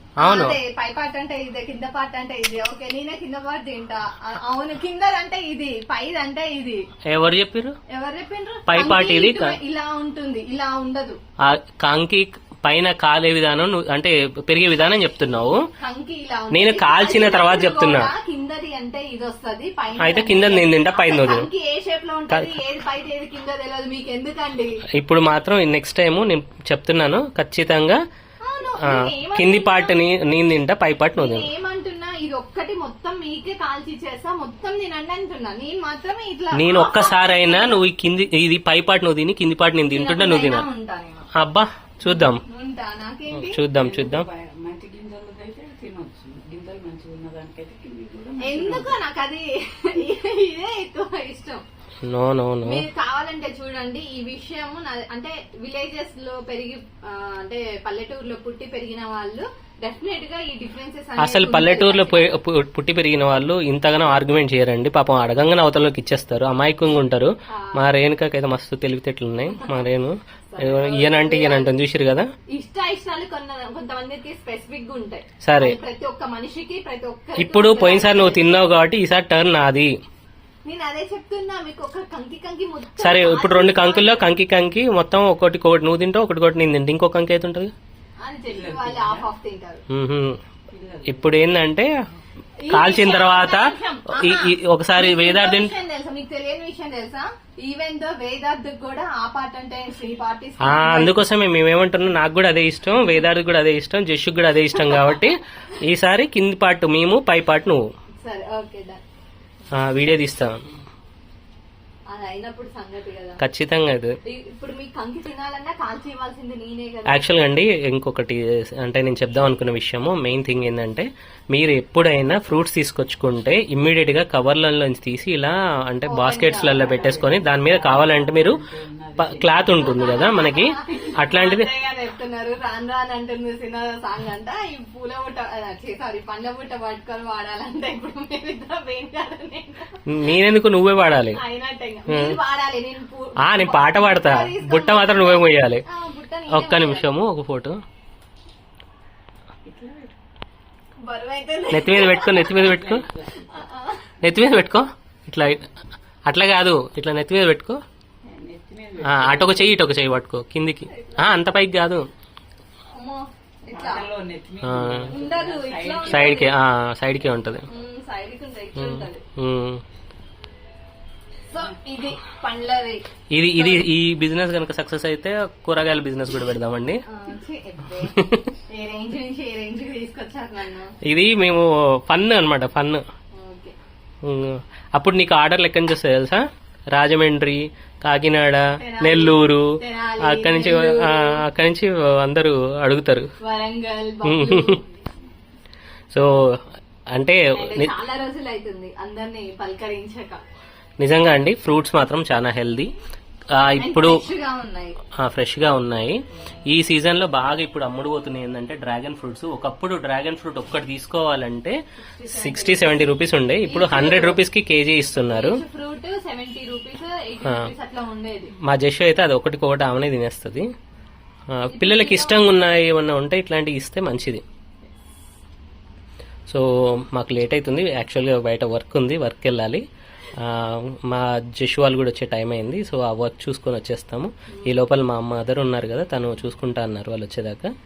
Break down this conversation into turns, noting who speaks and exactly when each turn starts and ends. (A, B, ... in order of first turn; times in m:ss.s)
0:00.2-0:06.8 A
0:00.2-0:00.6 B
0:07.1-0:07.7 B
0:07.9-0:11.2 A
0:08.7-0:09.6 B
0:11.4-0:15.6 B
0:15.8-0:24.8 A
0:16.5-0:18.1 B
0:20.0-0:21.5 B
0:22.3-0:22.5 B
0:25.0-0:28.0 B
0:28.4-0:30.0 A
0:28.8-0:31.5 B
0:31.2-0:37.8 A
0:36.5-0:40.6 B
0:39.9-0:41.3 A
0:41.4-0:42.4 B
0:42.1-0:43.6 A
0:43.4-0:44.3 B
0:43.7-0:49.0 C
0:48.4-0:51.6 A
0:52.0-0:52.8 B
0:52.6-1:02.3 A
1:01.2-1:12.3 B
1:07.5-1:07.7 A
1:09.5-1:09.8 A
1:10.5-1:11.7 A
1:12.5-1:18.5 A
1:15.4-1:15.8 B
1:17.4-1:19.9 B
1:20.6-1:24.2 A
1:23.0-1:27.7 B
1:28.2-1:29.8 A
1:28.5-1:29.3 C
1:29.9-1:30.4 B
1:30.7-1:31.5 C
1:31.1-1:31.9 B
1:32.6-1:41.1 A
1:32.7-1:35.7 B
1:40.6-1:47.8 B
1:44.8-1:45.2 A
1:48.2-1:49.0 A
1:49.7-1:50.6 B
1:52.1-1:53.4 A
1:53.4-1:54.1 B
1:54.3-1:57.2 A
1:57.1-2:08.6 B
2:06.1-2:07.1 A
2:06.5-2:10.0 C
2:09.2-2:11.7 B
2:09.8-2:19.9 A
2:20.1-2:21.4 B
2:21.4-2:27.1 A
2:22.1-2:22.3 B
2:23.4-2:25.8 B
2:26.5-2:27.8 B
2:29.6-2:30.2 C
2:31.0-2:32.7 A
2:31.7-2:33.1 B
2:32.5-2:33.6 C
2:33.4-2:34.0 A
2:34.2-2:35.6 B
2:36.3-2:37.8 B
2:38.2-2:39.8 C
2:39.0-2:42.0 B
2:40.9-2:41.4 A
2:42.9-2:44.1 A
2:43.7-2:46.4 C
2:44.6-2:45.2 B
2:45.1-2:46.5 A
2:46.1-2:47.6 B
2:47.7-2:49.2 A
2:48.8-2:49.8 B
2:51.5-2:53.9 A
2:53.3-2:57.0 B
2:57.1-2:58.2 A
2:58.2-2:58.5 B
2:58.7-3:00.9 A
3:01.1-3:03.0 B
3:03.3-3:03.7 A
3:04.2-3:09.7 B
3:08.8-3:11.4 A
3:10.2-3:13.3 B
3:13.4-3:15.0 A
3:14.2-3:14.8 B
3:16.1-3:16.4 B
3:17.1-3:17.9 B
3:17.5-3:20.4 A
3:21.0-3:22.9 B
3:23.6-3:24.2 B
3:23.7-3:25.0 A
3:25.2-3:35.6 B
3:32.2-3:34.4 A
3:35.3-3:38.5 A
3:38.6-3:40.6 B
3:41.5-3:44.4 B
3:41.7-3:42.5 A
3:46.5-3:49.8 B
3:50.4-3:57.7 B